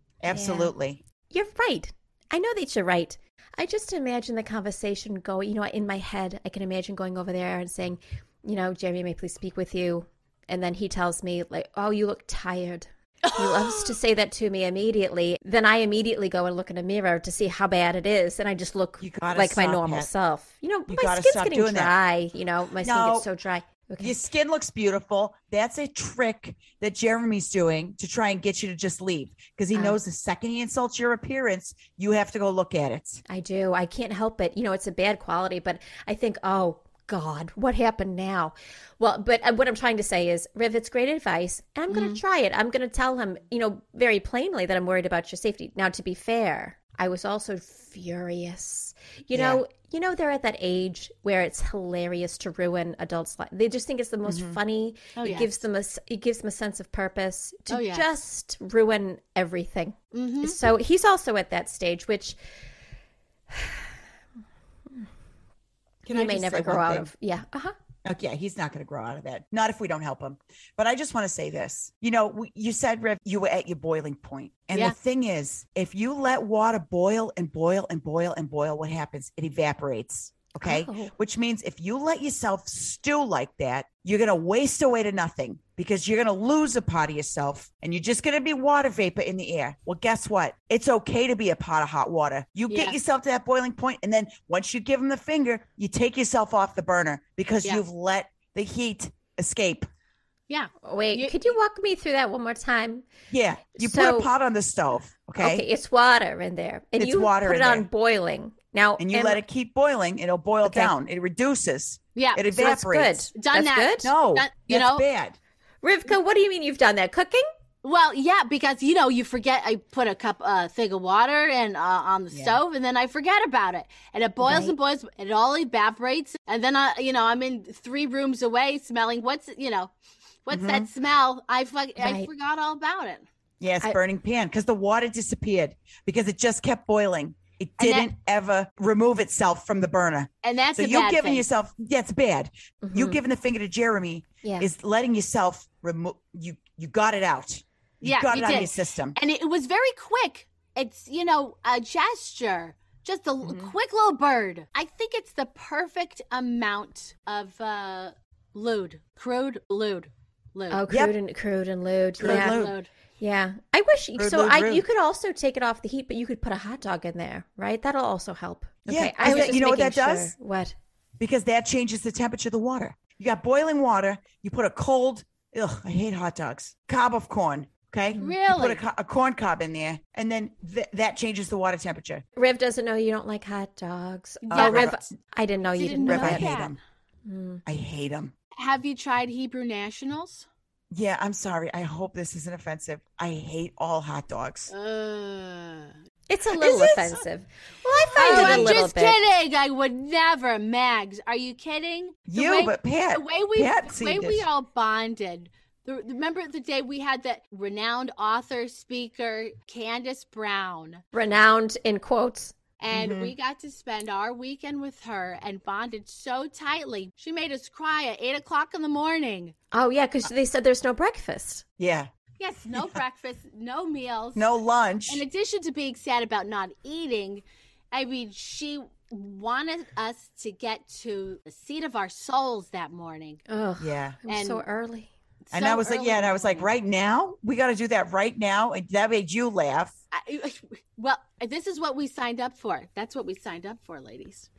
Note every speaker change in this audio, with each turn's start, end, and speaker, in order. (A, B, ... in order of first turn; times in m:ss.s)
0:00.2-0:01.0 A
0:00.3-0:00.7 B
0:01.3-0:24.2 B
0:13.2-0:14.0 C
0:19.0-0:20.1 A
0:20.9-0:21.9 A
0:22.8-0:23.2 A
0:24.0-0:33.2 A
0:29.7-0:30.0 B
0:33.3-1:02.4 B
0:41.9-0:42.2 C
0:49.3-0:49.6 A
0:54.2-0:54.6 A
0:55.2-0:55.5 C
0:57.7-0:58.1 C
1:00.1-1:00.6 C
1:03.5-1:03.9 B
1:06.0-1:07.1 A
1:06.1-1:07.7 B
1:08.0-1:39.9 A
1:20.6-1:21.1 B
1:32.7-1:33.0 C
1:40.5-1:41.5 C
1:40.8-1:43.1 B
1:43.3-1:45.6 A
1:43.8-1:44.3 B
1:45.4-1:49.4 B
1:47.0-1:47.9 A
1:49.0-1:53.3 A
1:50.6-1:50.9 B
1:52.2-1:52.6 C
1:52.5-1:54.1 B
1:53.4-1:55.0 C
1:54.0-1:55.4 A
1:55.8-1:57.5 B
1:57.8-2:09.9 C
2:02.3-2:02.6 A
2:04.4-2:04.8 B
2:10.5-2:13.2 C
2:10.5-2:10.9 A
2:12.0-2:12.3 B
2:13.6-2:29.2 A
2:17.8-2:18.1 C
2:20.4-2:21.4 C
2:22.8-2:23.2 B
2:24.4-2:24.7 B
2:28.0-2:40.8 C
2:33.4-2:33.7 A
2:40.7-2:42.6 B
2:42.2-2:42.8 A
2:42.2-2:42.9 C
2:43.2-2:50.8 B
2:44.2-2:44.8 A
2:48.9-2:50.3 A
2:49.2-2:49.6 C
2:51.2-3:02.2 A
2:58.2-2:58.8 C
3:02.4-3:06.5 B
3:04.5-3:04.9 C
3:04.5-3:05.1 A
3:05.8-3:06.8 C
3:06.0-3:06.8 A
3:07.2-3:07.6 B
3:07.7-3:08.3 A
3:08.6-3:10.5 C
3:10.9-3:14.7 A
3:14.7-3:15.9 C
3:16.3-3:19.2 B
3:16.6-3:17.2 A
3:18.1-3:18.8 A
3:18.2-3:31.0 C
3:22.3-3:24.5 A
3:31.1-3:32.6 B
3:32.8-3:39.5 C
3:32.9-3:33.3 A
3:39.7-3:41.6 B
3:41.8-3:42.1 A
3:42.4-3:44.5 C
3:44.4-3:45.2 A
3:45.1-3:53.4 C
3:53.5-3:55.1 B
3:53.8-3:54.2 A
3:54.3-3:54.6 C
3:55.5-3:56.7 C
3:55.5-4:00.0 A
4:00.1-4:04.5 C